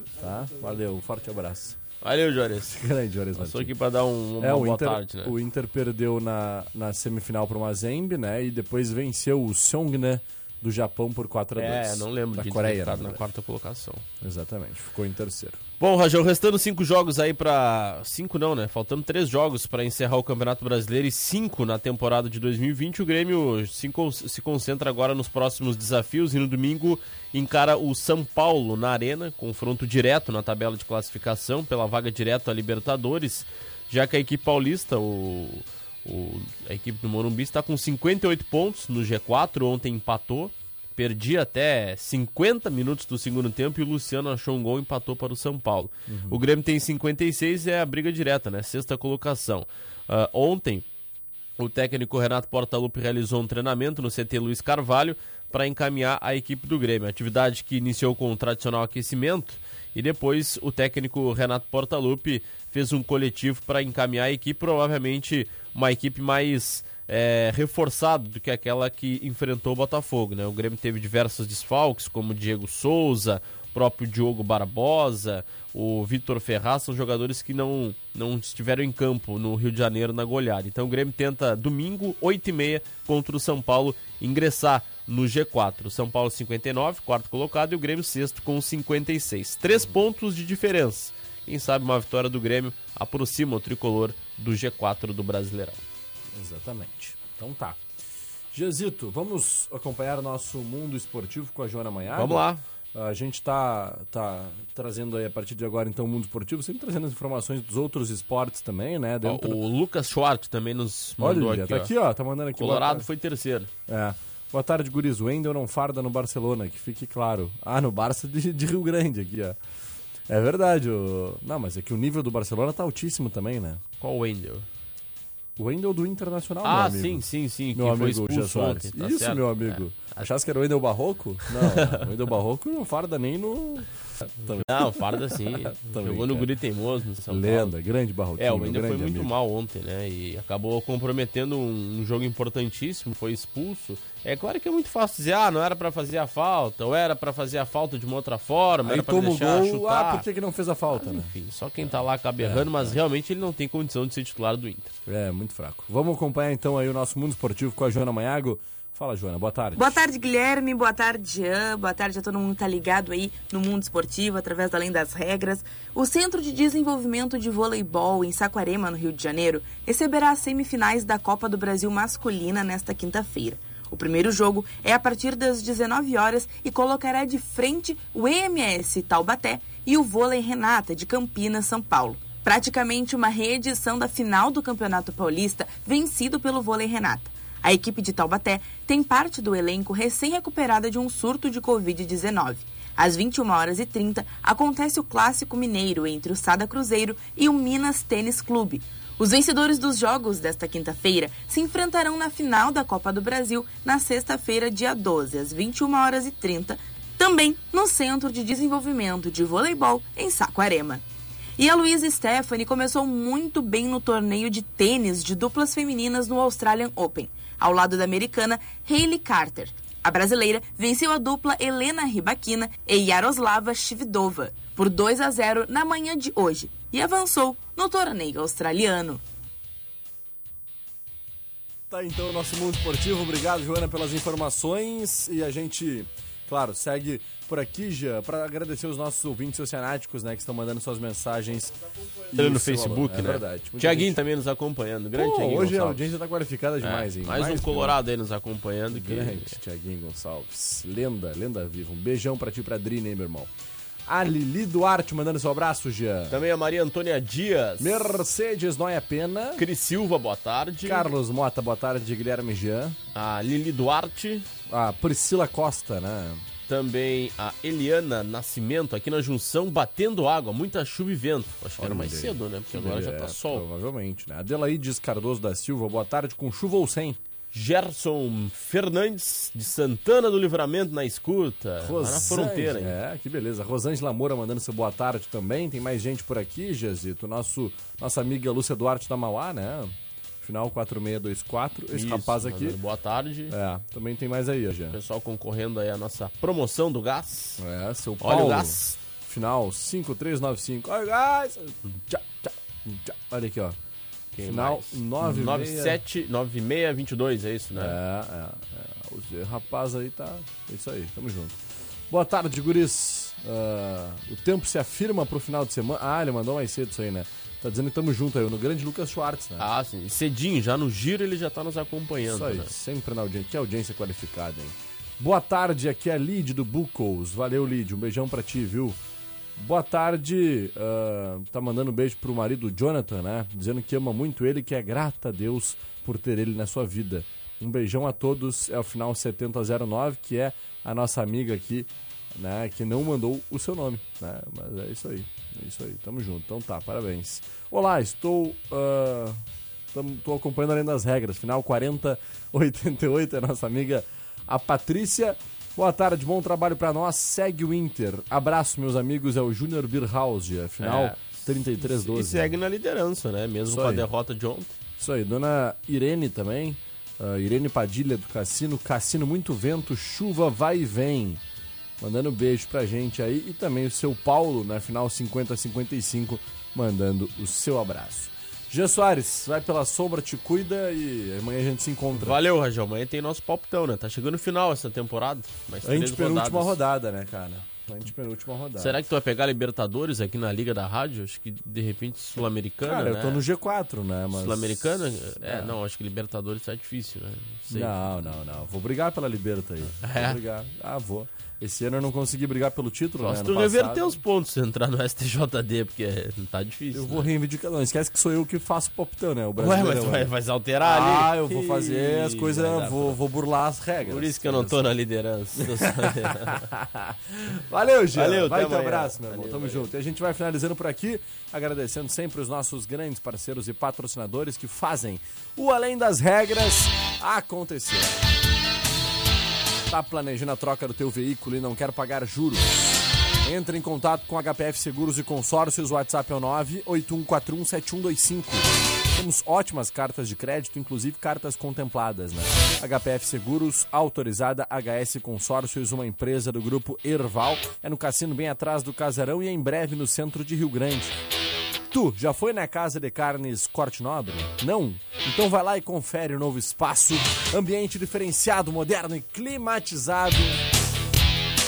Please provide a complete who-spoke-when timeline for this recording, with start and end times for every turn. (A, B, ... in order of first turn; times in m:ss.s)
0:00.2-0:01.8 A
0:02.0-0:02.8 B
0:02.6-0:03.7 A
0:03.4-0:05.3 B
0:04.4-0:13.3 A
0:11.6-0:14.0 B
0:14.2-0:15.6 A
0:15.8-0:50.8 B
0:46.1-0:46.4 A
0:51.6-1:35.8 B
1:29.7-1:30.0 A
1:36.3-1:37.8 A
1:38.5-1:42.4 A
1:42.1-1:42.6 B
1:42.9-1:49.6 A
1:49.2-1:51.9 B
1:51.2-1:53.1 A
1:52.6-1:53.7 B
1:53.9-1:59.6 A
2:00.3-2:03.8 A
2:04.0-2:04.7 B
2:05.6-2:16.5 A
2:06.6-2:10.2 B
2:11.5-2:12.1 B
2:14.5-2:17.7 B
2:17.3-2:19.3 A
2:18.4-2:30.2 B
2:28.8-2:31.3 A
2:30.9-2:34.9 B
2:32.4-2:33.0 A
2:35.0-2:40.0 A
2:39.8-3:31.0 C
3:31.6-3:49.2 C
3:51.9-4:04.2 A
4:02.4-4:06.1 B
4:05.1-4:08.0 A
4:06.8-4:09.6 B
4:08.9-4:13.5 A
4:14.1-4:16.4 A
4:16.3-4:18.2 B
4:17.8-4:19.6 A
4:19.6-4:21.1 B
4:20.8-4:23.0 A
4:23.1-4:24.5 B
4:24.7-4:26.4 A
4:26.7-4:33.6 B
4:31.8-4:37.2 A
4:37.5-4:42.9 B
4:41.8-4:52.8 A
4:51.9-4:53.5 B
4:53.5-4:55.0 A
4:54.9-4:57.6 B
4:57.6-5:03.8 A
4:58.2-4:59.0 B
5:04.3-5:08.0 B
5:04.4-5:06.0 A
5:07.7-5:11.6 A
5:12.1-5:19.6 A
5:19.6-5:22.7 B
5:22.2-5:29.0 A
5:29.6-5:49.4 A
5:49.9-6:02.5 A
6:00.8-6:04.8 B
6:03.7-6:04.0 A
6:05.0-6:11.4 A
6:12.0-6:22.4 A
6:22.1-6:26.8 B
6:25.8-6:29.0 A
6:28.8-6:33.4 B
6:32.8-6:35.7 A
6:34.3-6:38.3 B
6:37.7-6:44.2 A
6:40.0-6:40.4 B
6:43.2-6:47.3 B
6:46.9-6:54.8 A
6:49.6-6:53.2 B
6:54.0-6:56.6 B
6:55.6-7:08.1 A
6:58.1-6:59.9 B
7:09.9-7:31.1 A
7:31.9-7:40.6 A